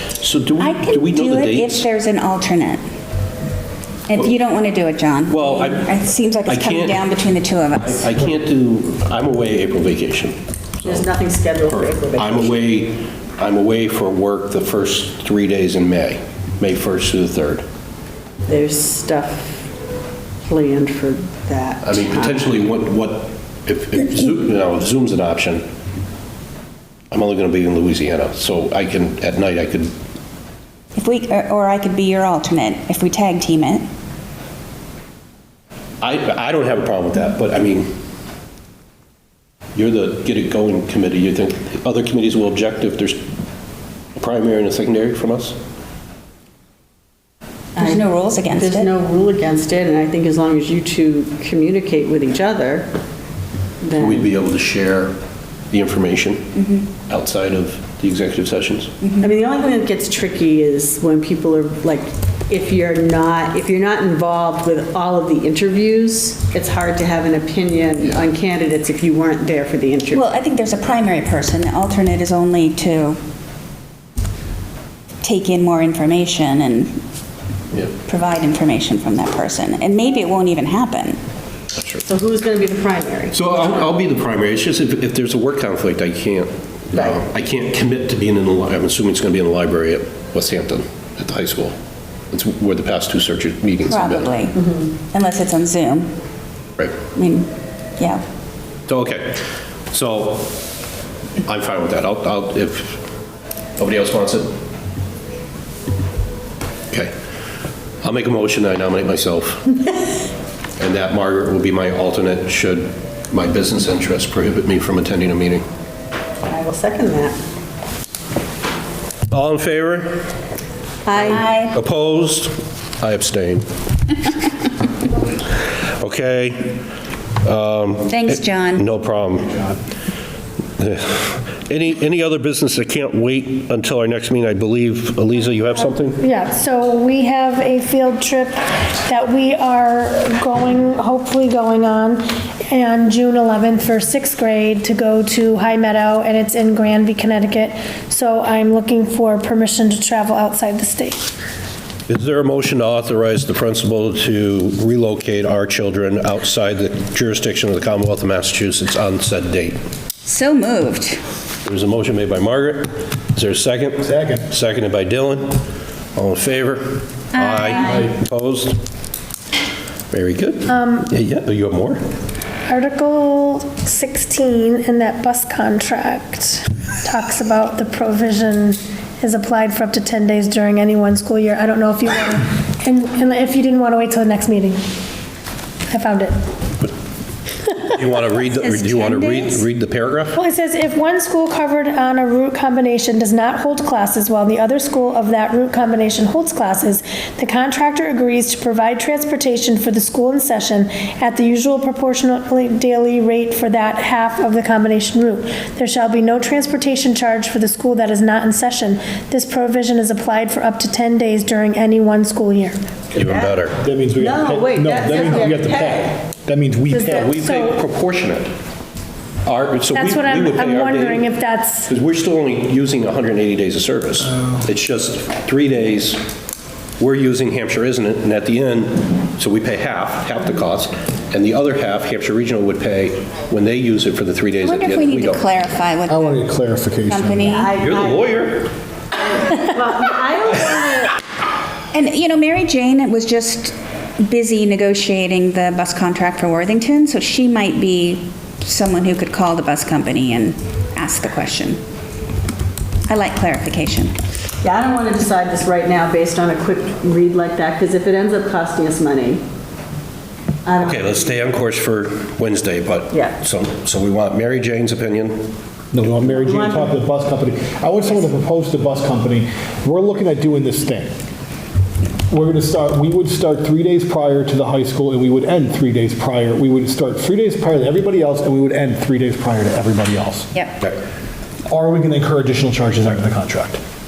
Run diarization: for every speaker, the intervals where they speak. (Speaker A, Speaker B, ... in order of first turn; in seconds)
Speaker A: 0.2-1.9, 5.3-5.9, 6.4-7.1, 7.9-11.1, 11.7-17.6, 21.8-25.7, 27.1-29.9, 36.0-38.0, 39.7-43.3, 44.1-45.6, 54.0-55.1, 55.7-58.9, 83.3-91.7, 92.3-94.3, 98.9-100.6, 101.4-103.0, 103.8-104.6, 108.0-109.7, 110.8-115.7, 119.3-120.2, 121.7-123.7, 126.0-126.8, 127.4-129.5, 130.8-136.2, 152.1-159.8, 161.6-165.6, 166.1-168.8, 170.1-172.0, 187.9-190.4, 213.1-213.8, 217.0-218.5, 219.4-221.3, 221.9-226.2, 227.0-235.4, 237.7-238.7, 260.8-265.5
Speaker B: 0.6-2.8, 4.1-8.1, 30.9-33.9, 47.8-48.9, 70.1-73.2, 75.2-76.9, 78.0-81.2, 93.8-94.6, 95.1-96.1, 97.1-98.2, 121.2-121.7, 128.1-128.9, 160.2-161.2, 167.3-168.1, 188.4-189.6, 234.6-236.4, 237.1-237.7, 241.9-251.8, 253.1-254.1
Speaker C: 10.8-12.6, 18.5-19.6, 20.4-22.5, 47.8-48.0, 48.5-52.9, 53.8-54.3, 59.2-70.2, 82.0-83.4, 94.5-94.9, 116.5-117.4, 121.0-121.5, 214.2-216.2, 237.4-238.3, 239.3-241.1, 254.6-259.4, 260.6-261.6, 266.2-266.9
Speaker D: 136.2-151.2, 170.7-171.1, 172.7-184.8, 185.9-186.3, 187.6-187.9, 190.3-212.8, 217.4-217.8, 219.9-221.9
Speaker E: 164.0-164.5, 213.7-217.3, 236.1-237.6, 265.9-271.1, 272.3-280.5, 281.7-283.8